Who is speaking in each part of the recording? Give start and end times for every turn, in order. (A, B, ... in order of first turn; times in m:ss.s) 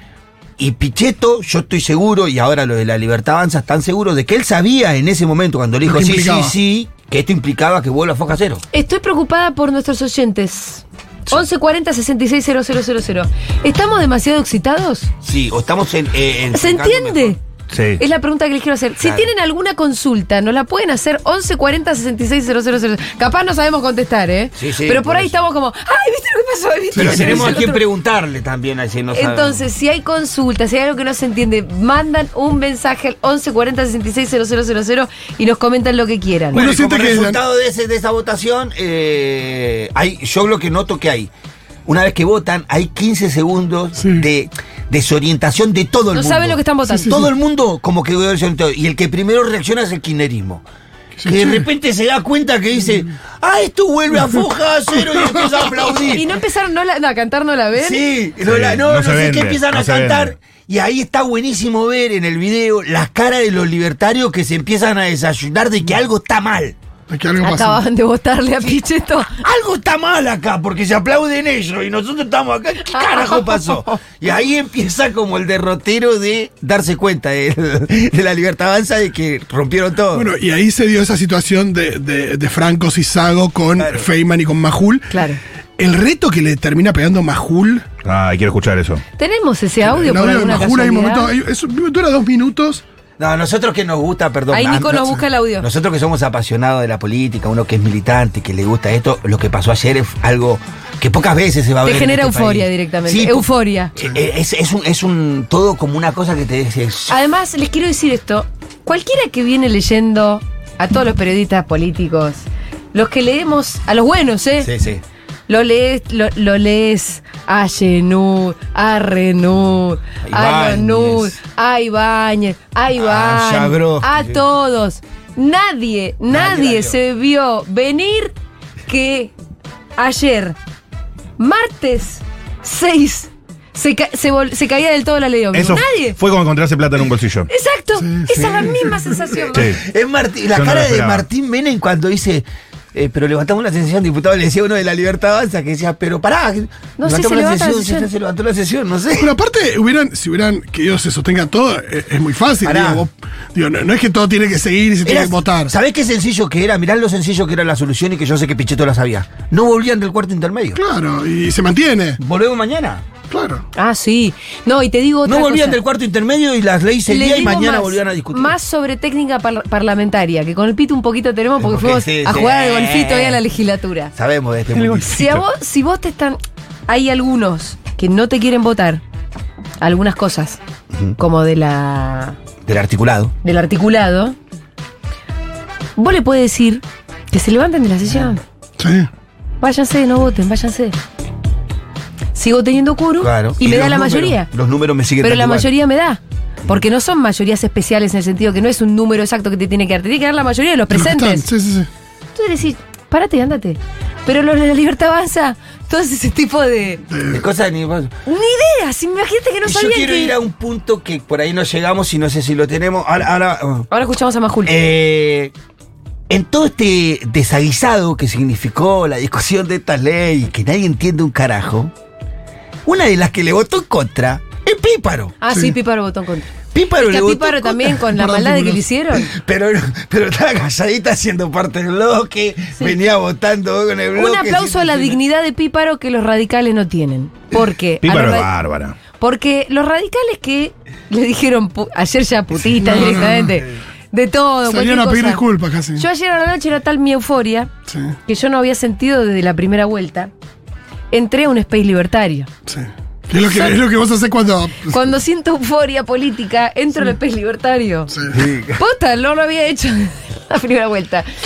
0:00.6-0:08.6 A
0:05.8-0:06.5 B
0:08.7-0:15.1 C
0:15.2-0:17.4 A
0:16.5-0:17.4 C
0:17.7-0:18.0 D
0:18.0-0:27.8 C
0:19.0-0:19.3 A
0:24.6-0:25.4 A
0:26.9-0:27.6 B
0:26.9-0:29.6 A
0:29.1-0:36.6 C
0:36.5-0:41.3 A
0:36.5-0:37.4 B
0:41.8-0:50.6 A
0:44.0-0:44.2 B
0:46.1-0:47.1 C
0:46.9-0:47.3 B
0:51.2-0:51.6 B
0:51.2-0:56.3 A
0:56.1-0:58.0 C
0:57.8-1:06.7 A
0:58.4-1:00.3 D
1:07.1-1:07.8 B
1:07.4-1:09.4 C
1:09.4-1:20.3 A
1:12.9-1:14.0 C
1:20.1-1:25.1 B
1:23.8-1:24.1 A
1:25.1-1:25.4 C
1:25.8-1:27.8 B
1:28.0-1:29.0 D
1:29.2-1:31.3 C
1:29.8-1:32.8 B
1:33.2-1:47.1 A
1:34.5-1:35.7 C
1:41.8-1:43.9 C
1:47.1-1:54.7 C
1:54.6-1:55.0 A
1:55.5-2:08.3 C
2:00.2-2:01.3 A
2:03.0-2:04.4 A
2:06.3-2:06.9 A
2:08.9-2:09.3 C
2:10.0-2:10.6 C
2:11.4-2:16.2 C
2:15.5-2:17.5 D
2:17.5-2:19.7 C
2:18.0-2:18.9 B
2:18.3-2:18.8 A
2:19.5-2:19.8 D
2:19.8-2:29.3 A
2:20.5-2:21.2 D
2:27.0-2:28.1 C
2:29.2-2:35.7 B
2:32.6-2:33.0 A
2:35.0-2:40.8 A
2:40.7-2:42.2 B
2:42.2-2:43.0 A
2:43.3-2:43.6 B
2:43.8-2:45.8 C
2:45.2-2:48.5 A
2:47.1-2:54.1 C
2:51.6-2:53.4 A
2:54.1-2:55.4 A
2:55.0-2:59.0 C
2:59.8-3:00.6 C
3:01.2-3:02.4 C
3:02.6-3:03.3 A
3:03.4-3:04.4 C
3:06.0-3:08.4 C
3:08.8-3:09.1 B
3:09.6-3:11.0 C
3:12.3-3:14.5 C
3:13.2-3:15.7 A
3:15.2-3:21.4 C
3:20.9-3:21.9 B
3:22.3-3:27.0 C
3:27.1-3:27.4 B
3:27.3-3:28.1 A
3:28.2-3:30.3 C
3:29.6-3:33.9 A
3:33.9-3:34.7 C
3:34.6-3:35.5 A
3:36.3-3:41.9 A
3:42.8-3:45.4 A
3:45.4-3:49.3 C
3:46.7-3:48.0 A
3:48.1-3:48.8 B
3:49.3-3:55.2 A
3:54.1-3:58.5 C
3:58.0-3:59.0 D
3:59.2-4:05.4 C
4:02.6-4:03.6 B
4:04.7-4:06.0 B
4:06.0-4:07.7 C
4:07.9-4:08.1 B
4:08.3-4:10.3 C
4:11.1-4:12.5 C
4:12.7-4:14.9 B
4:13.4-4:13.8 C
4:14.9-4:18.1 C
4:18.3-4:18.8 A
4:18.8-4:21.2 C